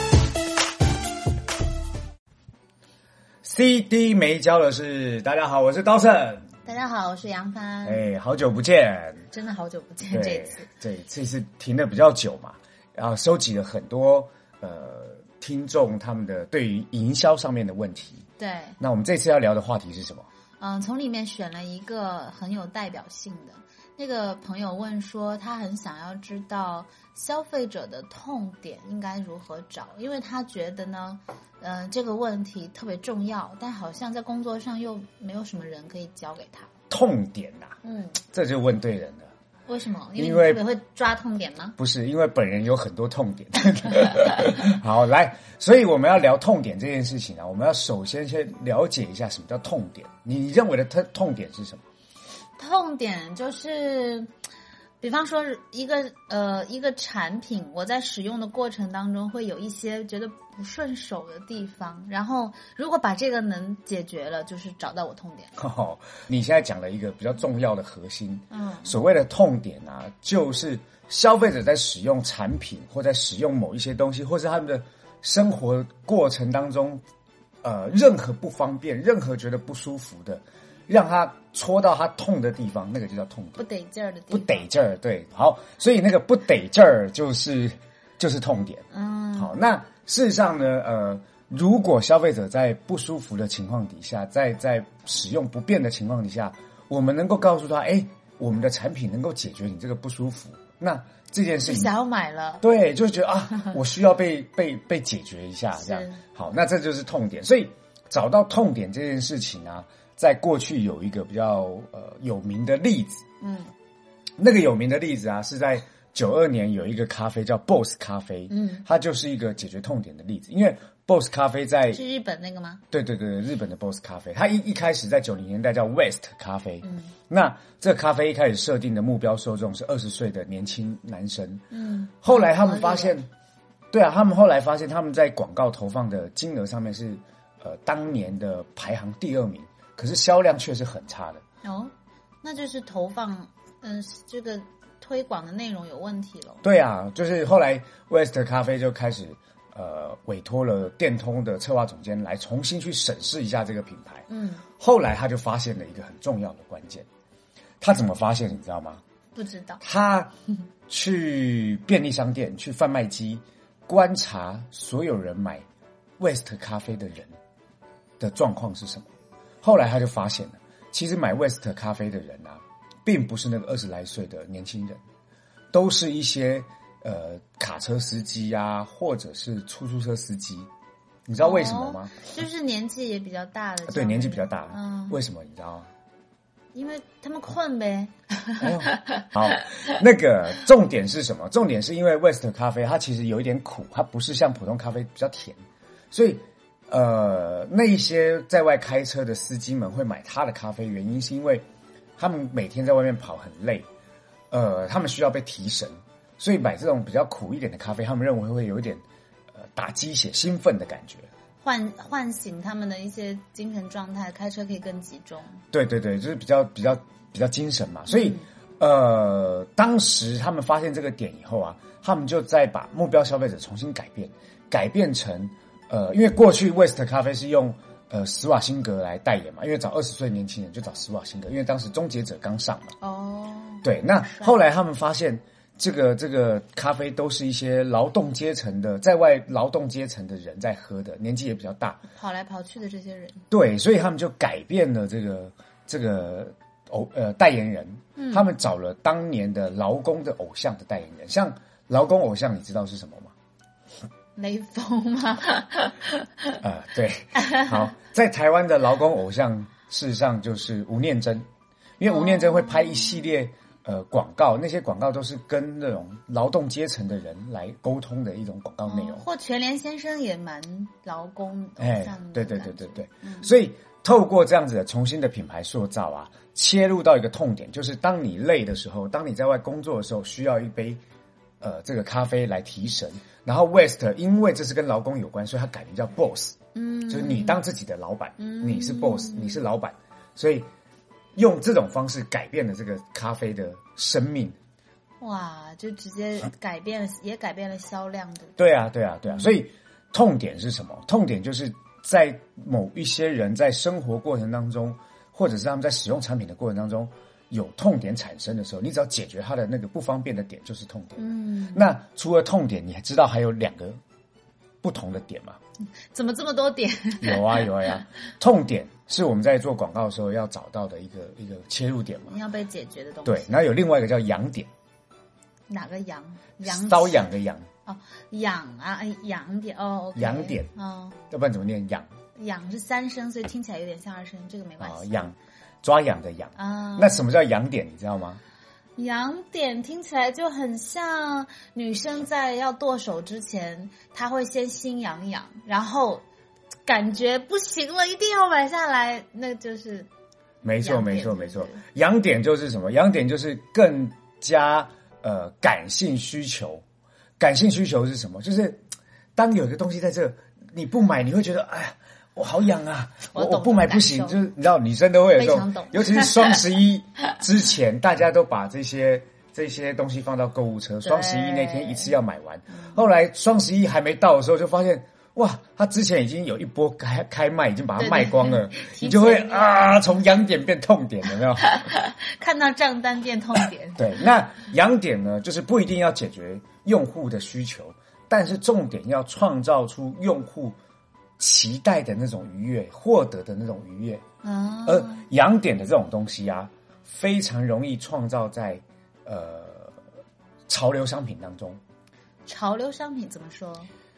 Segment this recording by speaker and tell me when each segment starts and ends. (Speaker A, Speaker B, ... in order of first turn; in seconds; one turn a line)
Speaker A: 3.4-6.5
Speaker B: 6.7-8.0
Speaker A: 7.8-9.2
Speaker B: 9.3-10.7
Speaker A: 10.1-18.2
Speaker B: 18.4-18.8
Speaker A: 18.8-20.3
Speaker B: 20.6-36.7
Speaker A: 36.9-39.3
Speaker B: 37.8-38.2
Speaker B: 39.7-41.8
Speaker A: 40.2-40.6
Speaker A: 41.8-51.8
Speaker B: 52.6-54.3
Speaker B: 55.0-65.5
Speaker A: 65.6-77.0
Speaker B: 68.5-69.0
Speaker A: 77.6-83.6
Speaker B: 83.6-84.7
Speaker A: 84.3-101.9
Speaker B: 88.9-89.6
Speaker B: 101.6-102.6
Speaker A: 102.6-113.2
Speaker B: 105.8-106.2
Speaker B: 113.4-113.7
Speaker A: 114.4-122.0
Speaker B: 118.5-118.8
Speaker B: 121.9-122.8
Speaker A: 122.9-131.7
Speaker B: 126.8-127.1
Speaker B: 131.7-133.2
Speaker A: 132.2-133.3
Speaker A: 133.9-141.4
Speaker B: 141.6-146.6
Speaker A: 146.6-154.3
Speaker B: 154.3-154.6
Speaker A: 154.8-157.1
Speaker A: 157.8-159.0
Speaker B: 159.3-159.8
Speaker A: 159.8-160.3
Speaker A: 160.9-165.7
Speaker A: 166.2-167.3
Speaker A: 168.2-169.1
Speaker A: 169.6-175.0
Speaker A: 175.7-180.7
Speaker A: 181.3-182.2
Speaker B: 181.4-185.2
Speaker A: 183.9-185.9
Speaker B: 186.7-189.2
Speaker A: 188.6-195.6
Speaker A: 196.1-201.6
Speaker A: 202.2-203.9
Speaker A: 204.5-209.0
Speaker A: 209.8-211.3
Speaker B: 211.6-215.6
Speaker A: 215.7-232.9
Speaker B: 218.1-218.4
Speaker B: 233.0-234.5
Speaker A: 233.8-242.0
Speaker B: 242.1-243.4
Speaker A: 243.5-253.3
Speaker B: 248.2-248.5
Speaker B: 254.3-256.6
Speaker A: 256.6-261.4
Speaker B: 257.4-257.8
Speaker A: 262.0-269.2
Speaker B: 262.1-263.3
Speaker B: 268.9-273.5
Speaker A: 271.8-281.0
Speaker A: 281.6-286.6
Speaker B: 286.7-287.6
Speaker A: 287.1-290.7
Speaker B: 288.4-289.6
Speaker A: 291.4-294.6
Speaker B: 295.2-298.6
Speaker A: 298.6-314.0
Speaker B: 311.2-311.8
Speaker A: 314.8-315.6
Speaker B: 316.1-317.8
Speaker A: 317.2-322.3
Speaker B: 322.3-323.6
Speaker A: 323.2-324.7
Speaker B: 325.7-327.3
Speaker A: 326.6-327.7
Speaker B: 327.9-331.2
Speaker A: 330.1-330.7
Speaker A: 331.3-332.1
Speaker B: 332.3-335.3
Speaker A: 334.8-338.4
Speaker B: 336.6-337.2
Speaker B: 338.9-346.2
Speaker B: 346.8-350.1
Speaker A: 350.6-356.8
Speaker B: 350.8-351.8
Speaker A: 357.4-358.8
Speaker A: 359.4-381.8
Speaker B: 363.3-364.4
Speaker B: 365.3-366.6
Speaker B: 371.0-372.1
Speaker B: 378.0-379.9
Speaker B: 381.7-384.1
Speaker A: 384.0-390.8
Speaker A: 391.4-394.2
Speaker B: 394.4-395.2
Speaker A: 394.8-400.0
Speaker A: 400.7-401.8
Speaker B: 402.4-403.9